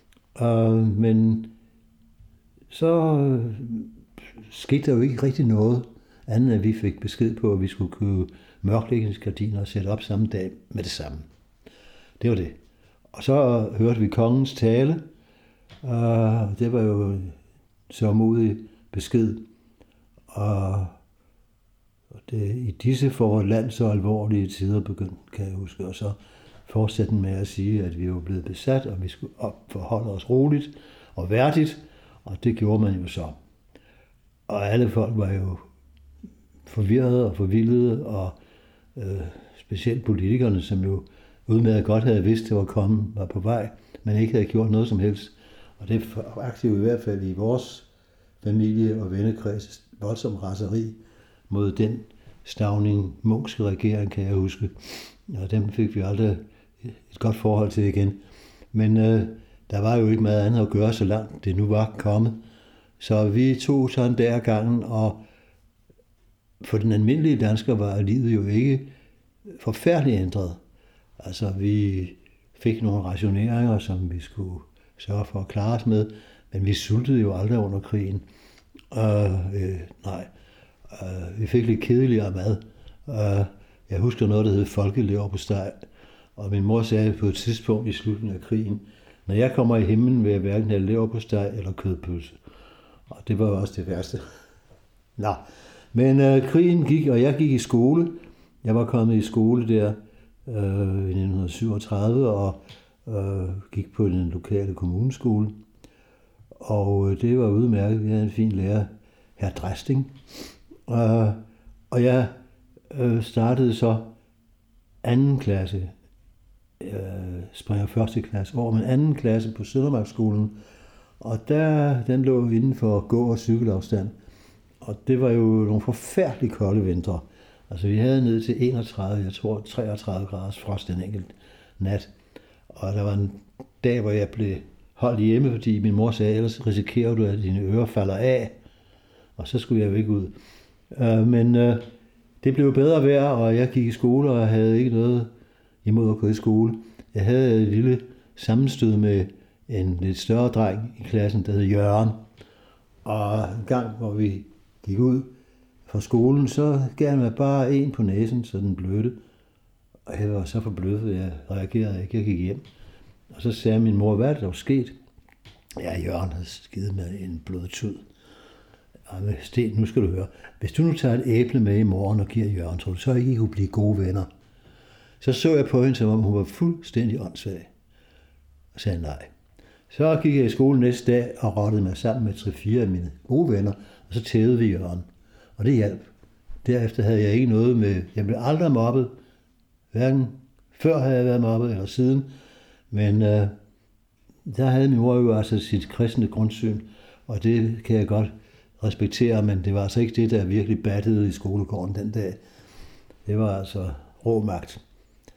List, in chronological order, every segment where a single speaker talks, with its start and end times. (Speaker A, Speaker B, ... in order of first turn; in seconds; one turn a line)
Speaker A: 0.3-1.5
Speaker A: 2.7-11.3
Speaker A: 12.2-12.6
Speaker A: 13.1-15.1
Speaker A: 15.8-17.4
Speaker A: 17.9-19.5
Speaker A: 20.3-21.0
Speaker A: 22.2-33.4
Speaker A: 34.5-35.6
Speaker A: 36.6-38.3
Speaker A: 38.9-47.9
Speaker A: 48.4-56.4
Speaker A: 57.1-58.2
Speaker A: 58.7-62.4
Speaker A: 63.0-65.2
Speaker A: 66.6-68.9
Speaker A: 69.5-70.6
Speaker A: 71.2-78.2
Speaker A: 78.9-80.3
Speaker A: 80.9-92.4
Speaker A: 93.1-94.2
Speaker A: 95.2-105.6
Speaker A: 106.6-110.1
Speaker A: 110.9-112.3
Speaker A: 112.9-114.2
Speaker A: 115.0-115.9
Speaker A: 116.8-120.6
Speaker A: 121.2-124.1
Speaker A: 124.8-132.1
Speaker A: 132.7-138.6
Speaker A: 139.4-140.3
Speaker A: 140.9-141.9
Speaker A: 142.4-145.3
Speaker A: 145.8-152.2
Speaker A: 153.0-159.2
Speaker A: 160.1-162.6
Speaker A: 163.3-164.9
Speaker A: 165.8-168.0
Speaker A: 169.1-174.3
Speaker A: 175.2-177.7
Speaker A: 178.7-179.3
Speaker A: 179.9-185.1
Speaker A: 185.6-186.1
Speaker A: 186.6-189.2
Speaker A: 189.9-192.3
Speaker A: 192.9-193.5
Speaker A: 194.4-202.4
Speaker A: 203.2-204.8